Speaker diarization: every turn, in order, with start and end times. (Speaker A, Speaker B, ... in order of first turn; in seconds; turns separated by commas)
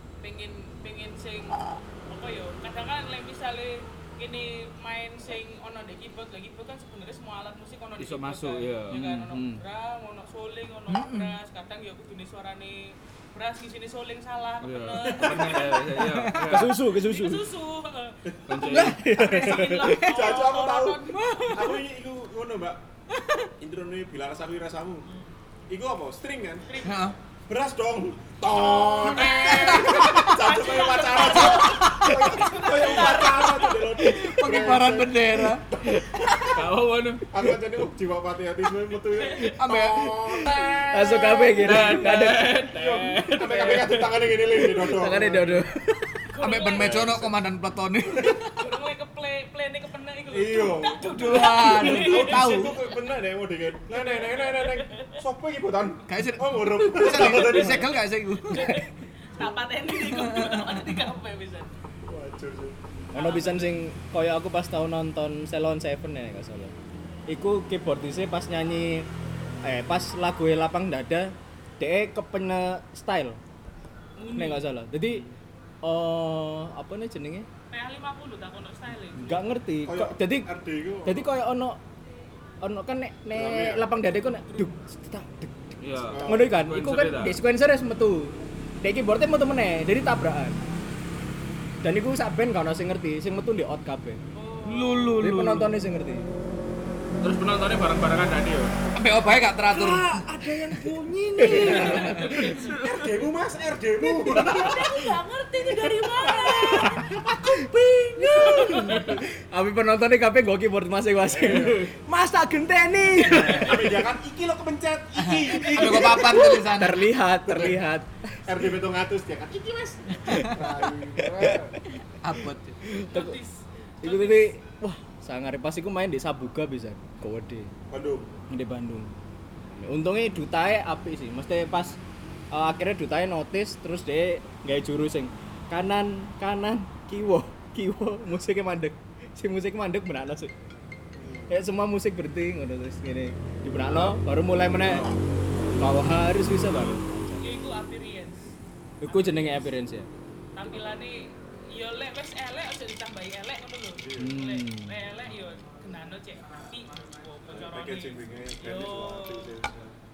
Speaker A: 0.2-15.8, Speaker B: 8.0-9.1, Speaker C: 8.9-9.6, Speaker D: 10.9-11.4, Speaker B: 14.6-16.8, Speaker E: 15.0-15.9, Speaker D: 16.2-16.5, Speaker C: 16.4-17.5, Speaker A: 16.9-21.8, Speaker B: 18.5-19.1, Speaker C: 18.6-20.1, Speaker E: 19.4-22.8, Speaker E: 23.6-25.1, Speaker A: 25.1-25.3, Speaker E: 25.7-26.8, Speaker A: 26.7-27.1, Speaker D: 26.9-27.2, Speaker E: 27.5-36.6, Speaker A: 28.5-33.9, Speaker D: 29.4-30.3, Speaker D: 31.6-32.3, Speaker D: 34.0-35.7, Speaker B: 36.5-37.3, Speaker E: 37.3-45.7, Speaker A: 39.2-39.5, Speaker D: 39.5-41.1, Speaker C: 40.9-42.7, Speaker B: 41.6-44.2, Speaker C: 43.4-46.2, Speaker A: 46.3-47.1, Speaker D: 46.4-48.6, Speaker E: 46.7-47.5, Speaker E: 48.1-48.4, Speaker A: 48.6-52.8, Speaker E: 50.3-58.0, Speaker D: 51.1-52.9, Speaker A: 53.9-55.1, Speaker D: 56.1-58.8, Speaker A: 57.2-61.7, Speaker E: 59.4-59.6, Speaker D: 60.0-61.0, Speaker E: 62.1-62.8, Speaker C: 63.1-66.7, Speaker A: 63.1-63.8, Speaker C: 67.3-69.1, Speaker C: 69.6-73.4, Speaker A: 74.2-74.7, Speaker C: 74.3-75.3, Speaker C: 75.8-77.5, Speaker A: 77.7-79.4, Speaker C: 79.2-81.8, Speaker E: 79.8-81.3, Speaker C: 82.6-90.6, Speaker E: 83.3-83.9, Speaker A: 84.4-84.7, Speaker B: 85.8-87.4, Speaker E: 86.0-86.6, Speaker C: 91.8-94.2, Speaker A: 94.3-95.3, Speaker B: 94.7-95.7, Speaker C: 95.2-96.3, Speaker B: 97.2-98.8, Speaker D: 99.0-100.8, Speaker B: 99.7-102.9, Speaker C: 101.4-102.4, Speaker E: 101.5-105.1, Speaker A: 101.7-102.8, Speaker D: 101.8-102.3, Speaker A: 104.0-107.0, Speaker E: 105.7-107.6, Speaker C: 106.6-114.1, Speaker A: 108.2-109.2, Speaker E: 108.2-108.7, Speaker E: 111.3-111.9, Speaker A: 113.2-113.7, Speaker E: 113.5-116.7, Speaker D: 115.2-117.0, Speaker C: 115.5-118.7, Speaker E: 117.5-117.8, Speaker E: 118.5-121.8, Speaker C: 120.3-121.8, Speaker D: 122.2-122.8, Speaker C: 122.3-123.4, Speaker A: 123.1-124.5, Speaker C: 124.0-127.7, Speaker E: 127.9-128.3, Speaker C: 128.5-129.2, Speaker C: 129.7-132.0, Speaker C: 132.5-140.5, Speaker E: 141.2-141.6, Speaker C: 141.5-145.1, Speaker E: 143.8-144.2, Speaker E: 144.8-145.2, Speaker C: 145.8-147.6, Speaker A: 147.4-148.5, Speaker C: 149.0-150.1, Speaker A: 149.1-149.7, Speaker A: 150.6-159.5, Speaker E: 154.0-154.4, Speaker C: 154.2-155.0, Speaker E: 157.5-160.0